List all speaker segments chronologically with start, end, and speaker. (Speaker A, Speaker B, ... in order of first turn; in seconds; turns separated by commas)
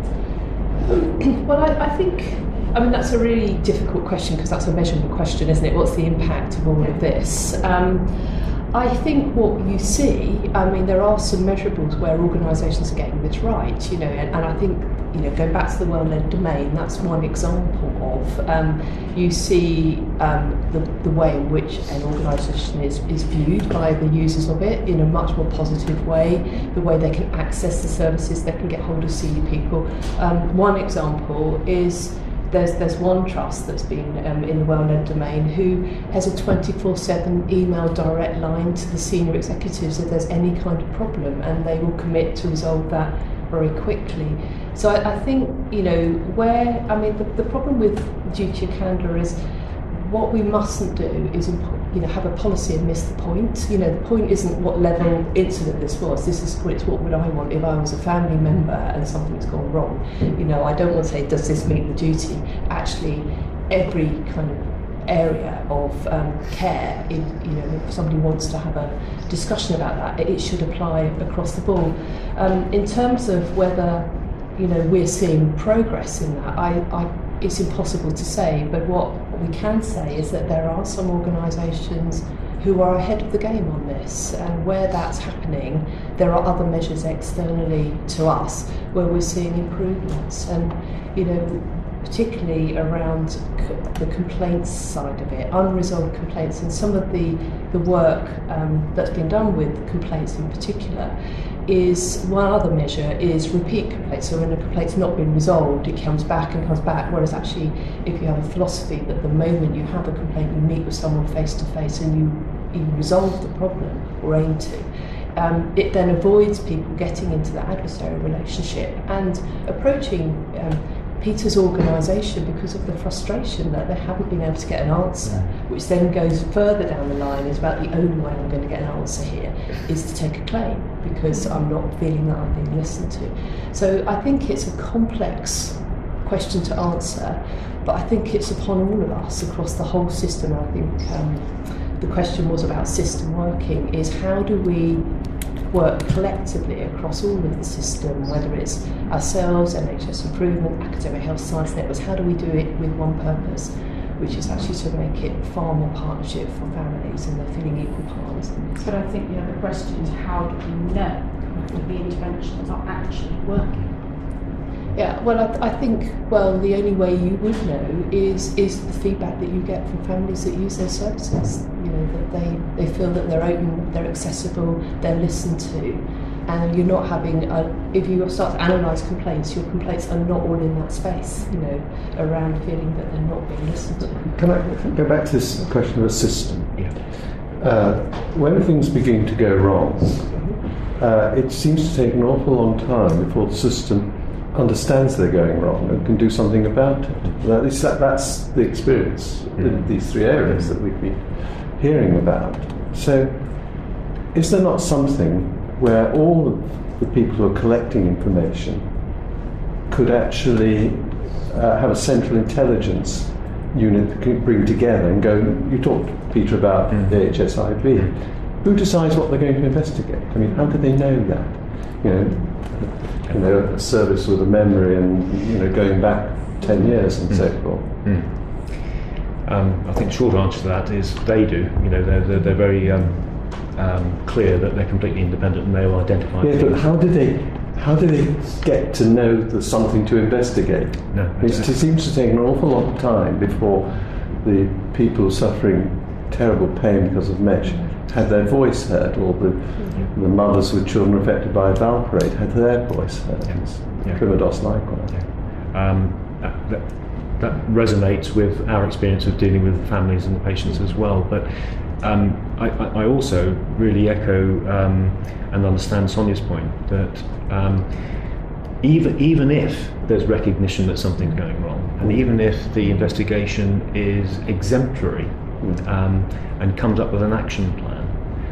Speaker A: 0.9-101.1, Speaker B: 6.8-7.1, Speaker A: 101.7-158.8, Speaker C: 125.2-125.5, Speaker B: 158.8-164.2, Speaker A: 164.9-184.3, Speaker D: 184.2-186.9, Speaker D: 187.6-209.0, Speaker D: 209.9-227.9, Speaker C: 227.3-228.5, Speaker C: 229.4-236.9, Speaker D: 236.4-255.2, Speaker C: 241.1-241.7, Speaker A: 249.8-250.1, Speaker C: 253.5-268.2, Speaker C: 268.8-278.2, Speaker D: 275.6-275.9